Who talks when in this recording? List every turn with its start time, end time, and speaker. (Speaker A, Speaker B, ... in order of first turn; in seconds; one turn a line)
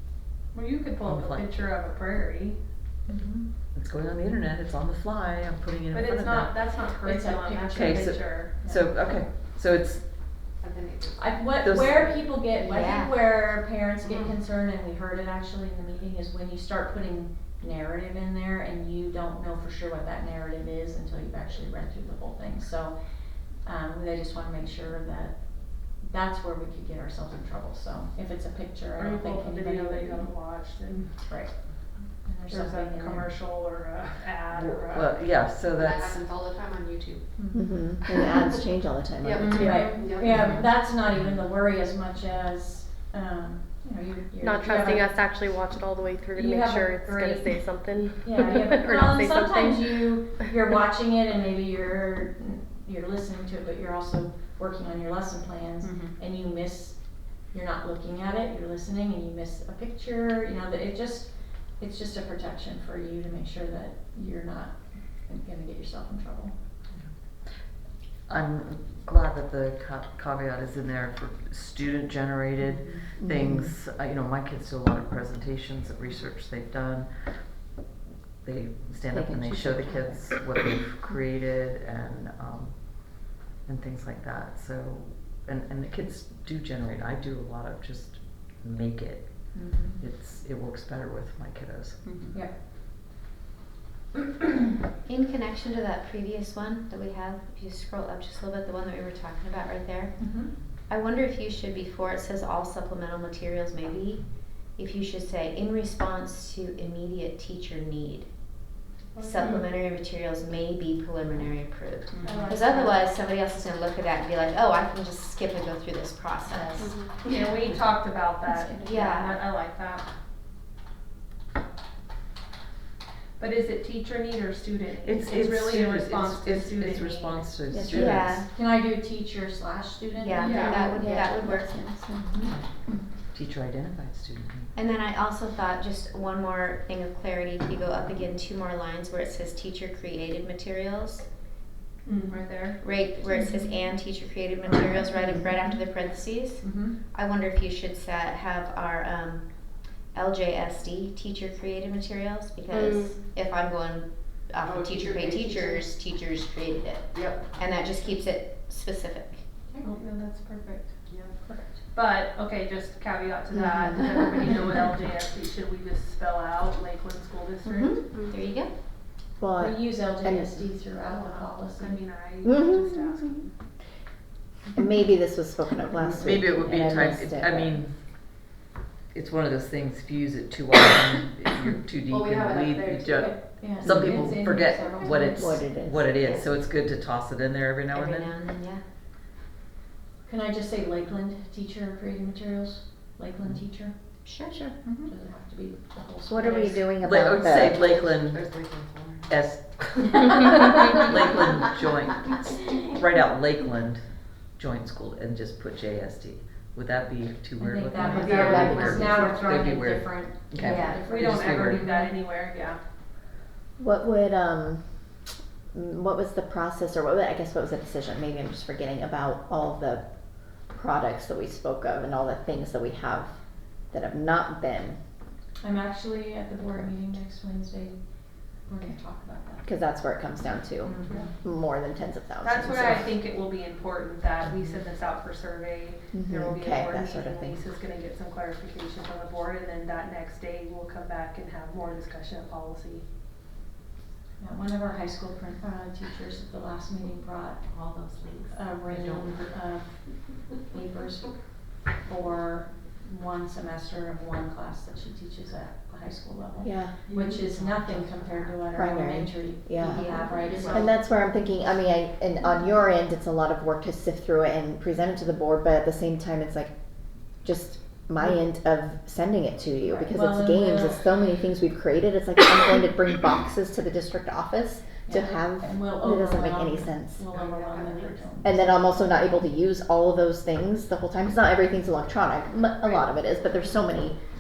Speaker A: 0.5-2.6
Speaker B: 1.0-1.7
Speaker B: 3.6-6.6
Speaker A: 5.9-8.5
Speaker C: 7.0-8.8
Speaker B: 7.7-10.5
Speaker D: 10.6-11.4
Speaker C: 11.2-30.3
Speaker B: 11.6-12.4
Speaker E: 12.6-13.2
Speaker A: 29.0-31.1
Speaker C: 31.2-31.5
Speaker C: 32.1-33.3
Speaker A: 32.5-35.1
Speaker B: 34.5-36.3
Speaker D: 35.7-37.2
Speaker F: 37.5-39.8
Speaker D: 39.2-40.6
Speaker C: 39.4-45.2
Speaker G: 39.5-40.0
Speaker G: 44.4-49.9
Speaker C: 46.3-66.5
Speaker B: 68.3-77.5
Speaker F: 73.2-73.8
Speaker B: 78.4-92.1
Speaker F: 79.1-80.3
Speaker C: 89.5-90.0
Speaker E: 95.0-117.3
Speaker C: 100.2-100.5
Speaker A: 109.1-109.6
Speaker A: 112.2-112.9
Speaker D: 116.8-117.2
Speaker A: 117.2-120.0
Speaker E: 118.8-119.4
Speaker A: 123.4-127.4
Speaker B: 125.0-128.4
Speaker F: 127.7-128.3
Speaker E: 127.9-128.5
Speaker C: 127.9-131.6
Speaker E: 130.2-131.8
Speaker A: 130.4-130.8
Speaker F: 130.9-132.5
Speaker B: 133.3-134.7
Speaker E: 134.7-141.3
Speaker A: 142.1-142.8
Speaker E: 142.8-159.8
Speaker C: 146.6-147.0
Speaker D: 152.8-153.1
Speaker D: 154.6-155.8
Speaker D: 157.1-157.6
Speaker A: 159.8-161.0
Speaker A: 161.9-168.0
Speaker F: 163.5-163.9
Speaker F: 167.6-168.0
Speaker E: 168.2-168.7
Speaker F: 169.4-170.7
Speaker C: 169.6-172.0
Speaker A: 171.3-173.5
Speaker F: 172.4-173.2
Speaker F: 174.7-177.7
Speaker B: 175.9-177.9
Speaker B: 179.1-188.3
Speaker D: 182.1-183.4
Speaker C: 183.2-185.6
Speaker F: 183.8-184.1
Speaker F: 185.3-186.1
Speaker E: 186.2-186.4
Speaker E: 187.9-188.8
Speaker C: 190.2-194.0
Speaker E: 194.2-194.7
Speaker C: 195.0-196.8
Speaker F: 196.3-197.8
Speaker B: 197.0-198.4
Speaker D: 197.9-199.3
Speaker B: 199.3-200.1
Speaker B: 200.9-204.0
Speaker B: 204.6-211.8
Speaker C: 207.6-212.1
Speaker F: 208.0-209.5
Speaker A: 208.2-208.8
Speaker D: 208.5-209.3
Speaker E: 210.6-211.0
Speaker A: 211.1-212.8
Speaker F: 213.8-214.9
Speaker F: 215.7-220.1
Speaker F: 220.7-223.3
Speaker F: 223.9-225.0
Speaker C: 225.6-228.0
Speaker C: 228.7-229.7
Speaker F: 229.6-233.1
Speaker C: 230.8-231.3
Speaker A: 232.4-243.0
Speaker F: 236.1-237.6
Speaker C: 244.4-247.8
Speaker D: 247.7-249.3
Speaker C: 248.5-260.9
Speaker F: 256.6-256.9
Speaker D: 257.1-258.6
Speaker F: 258.7-266.7
Speaker E: 259.8-260.9
Speaker F: 267.4-277.2
Speaker C: 269.9-271.0
Speaker C: 275.1-278.9
Speaker D: 277.3-278.3
Speaker F: 278.4-284.2